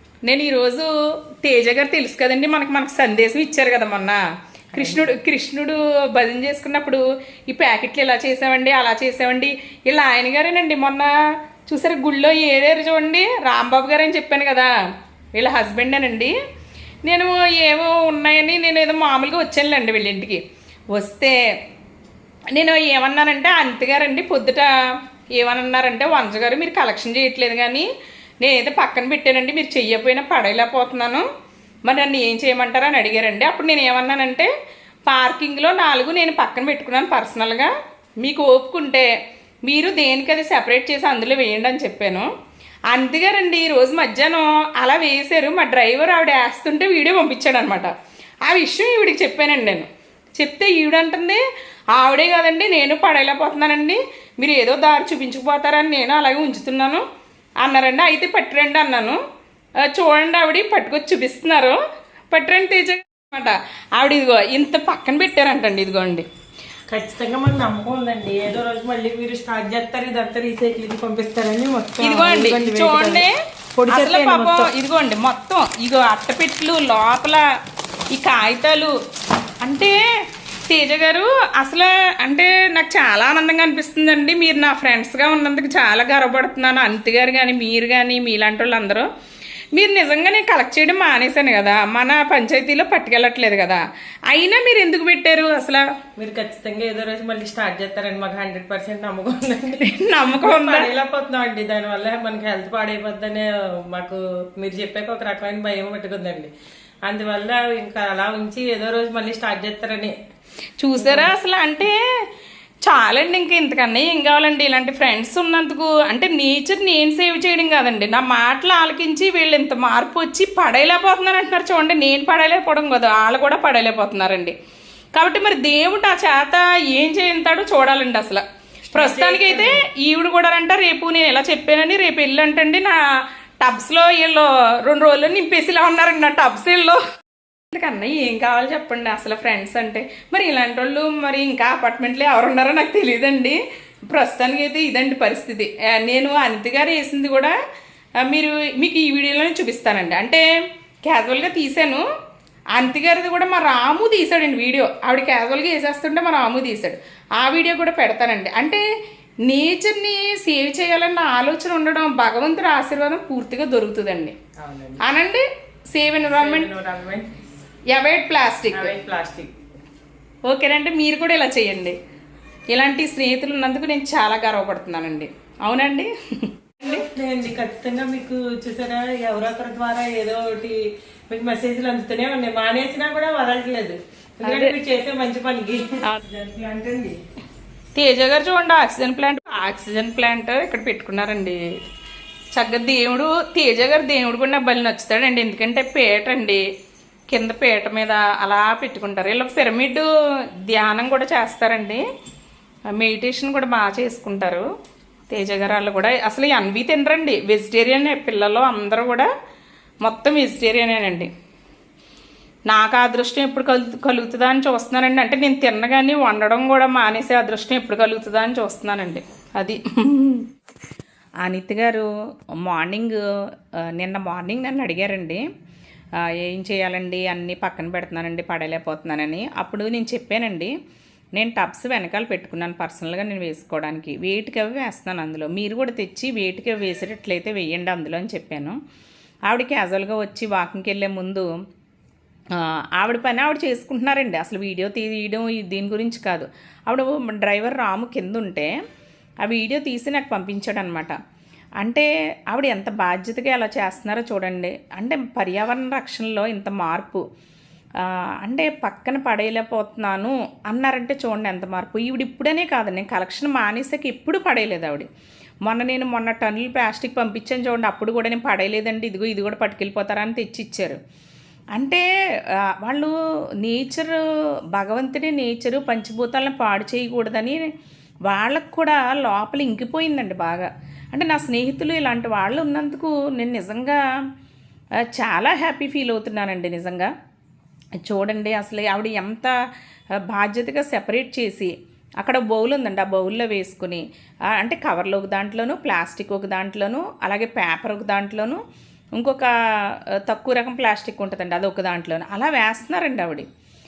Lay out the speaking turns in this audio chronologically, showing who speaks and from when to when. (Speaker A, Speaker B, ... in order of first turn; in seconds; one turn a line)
Speaker A: 0.2-0.9
Speaker A: 1.4-4.2
Speaker B: 4.7-5.1
Speaker A: 4.7-11.1
Speaker A: 11.7-14.7
Speaker A: 15.3-16.3
Speaker A: 17.0-20.4
Speaker A: 20.9-21.4
Speaker A: 22.5-24.7
Speaker A: 25.3-27.9
Speaker A: 28.4-31.3
Speaker A: 31.9-34.5
Speaker A: 35.0-37.7
Speaker A: 38.2-39.1
Speaker A: 39.6-42.3
Speaker A: 42.9-47.9
Speaker A: 48.5-51.4
Speaker A: 52.0-57.0
Speaker A: 57.6-59.2
Speaker A: 59.8-61.8
Speaker A: 62.3-66.2
Speaker B: 66.9-73.2
Speaker A: 72.0-73.3
Speaker B: 73.8-74.7
Speaker A: 73.9-77.4
Speaker A: 78.1-78.9
Speaker A: 79.6-80.0
Speaker A: 80.7-89.1
Speaker A: 89.7-95.9
Speaker B: 96.2-106.5
Speaker A: 99.8-100.9
Speaker B: 107.0-110.1
Speaker A: 110.8-112.0
Speaker B: 111.0-111.3
Speaker A: 112.8-124.5
Speaker A: 125.1-133.0
Speaker B: 128.9-129.7
Speaker A: 133.6-137.0
Speaker A: 137.7-143.6
Speaker A: 144.1-147.5
Speaker A: 148.2-150.4
Speaker A: 151.1-152.0
Speaker A: 152.7-158.8
Speaker A: 159.4-164.3
Speaker B: 164.6-165.0
Speaker A: 165.0-166.7
Speaker B: 166.3-167.3
Speaker A: 167.9-168.9
Speaker B: 168.7-169.5
Speaker A: 170.4-171.9
Speaker A: 172.7-177.0
Speaker B: 176.8-180.8
Speaker B: 181.3-187.2
Speaker A: 184.4-184.7
Speaker A: 187.9-191.6
Speaker A: 192.5-196.6
Speaker A: 197.3-200.1
Speaker A: 200.6-202.0
Speaker A: 202.9-204.7
Speaker A: 205.3-209.3
Speaker A: 210.0-211.3
Speaker A: 212.7-220.5
Speaker A: 221.4-222.1
Speaker A: 222.6-223.2
Speaker A: 223.9-225.4
Speaker A: 226.2-230.7
Speaker A: 231.3-238.8
Speaker A: 239.5-241.5
Speaker A: 242.5-248.7
Speaker A: 249.4-251.2
Speaker A: 251.8-257.2
Speaker A: 258.0-265.1
Speaker A: 265.7-271.0
Speaker A: 271.8-272.0
Speaker A: 272.8-273.1
Speaker A: 273.6-274.2
Speaker A: 274.8-277.6
Speaker A: 278.3-284.0
Speaker A: 285.1-287.1
Speaker A: 288.0-289.5
Speaker A: 290.3-294.0
Speaker A: 294.5-298.6
Speaker A: 299.2-303.4